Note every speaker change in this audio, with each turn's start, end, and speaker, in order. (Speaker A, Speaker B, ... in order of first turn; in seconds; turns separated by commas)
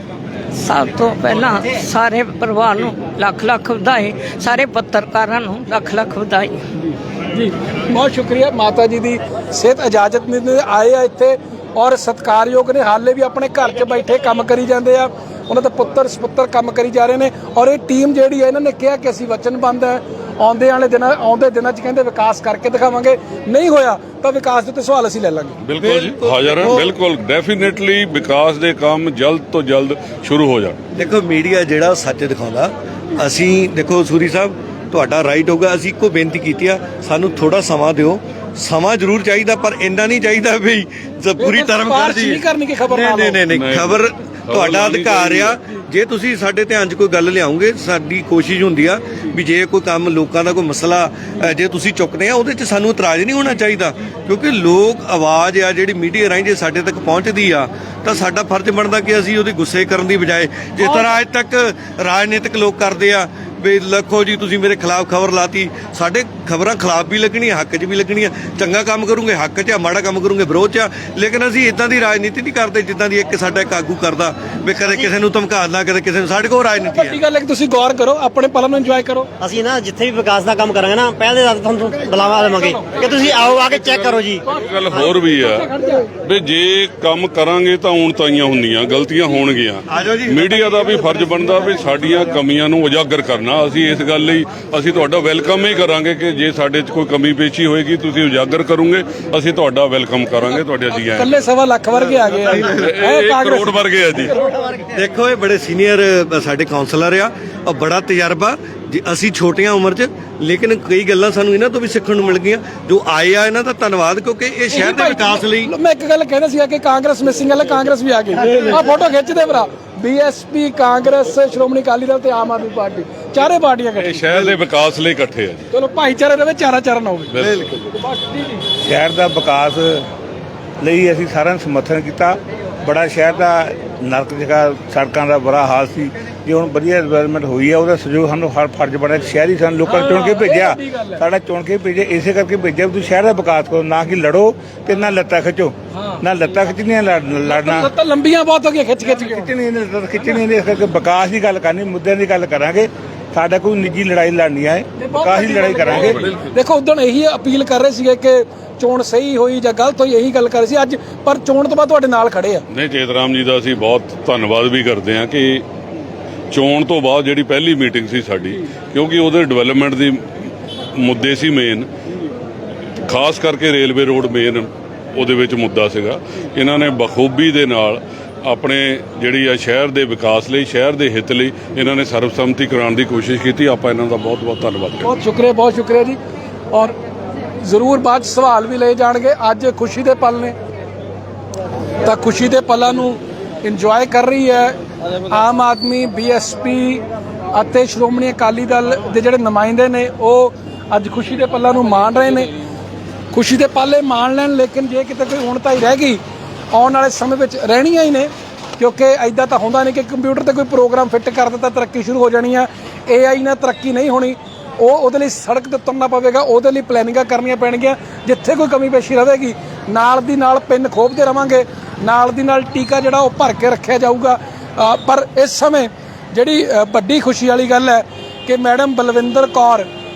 Speaker A: 0.6-6.6, Speaker B: 6.8-25.6, Speaker C: 25.6-30.8, Speaker D: 25.8-26.9, Speaker D: 30.9-77.2, Speaker B: 41.4-43.4, Speaker C: 43.5-45.6, Speaker B: 76.9-79.3, Speaker E: 79.4-85.1, Speaker B: 82.6-83.0, Speaker B: 84.4-86.1, Speaker C: 84.5-85.7, Speaker C: 86.2-101.3, Speaker D: 89.9-90.9, Speaker B: 100.9-104.4, Speaker C: 102.5-104.3, Speaker D: 104.9-115.7, Speaker B: 114.7-124.2, Speaker C: 124.0-125.7, Speaker B: 125.7-127.3, Speaker C: 127.3-127.7, Speaker D: 127.4-127.7, Speaker B: 127.9-128.7, Speaker F: 128.8-130.0, Speaker F: 130.8-147.9, Speaker B: 139.8-141.2, Speaker B: 147.5-149.5, Speaker F: 149.0-156.2, Speaker B: 155.0-162.6, Speaker C: 156.0-156.5, Speaker C: 162.7-165.6, Speaker C: 166.5-170.3, Speaker C: 171.0-171.9, Speaker C: 173.1-185.1, Speaker B: 185.0-186.2, Speaker B: 187.7-190.6, Speaker B: 192.0-202.5, Speaker B: 203.3-206.2, Speaker B: 206.7-229.9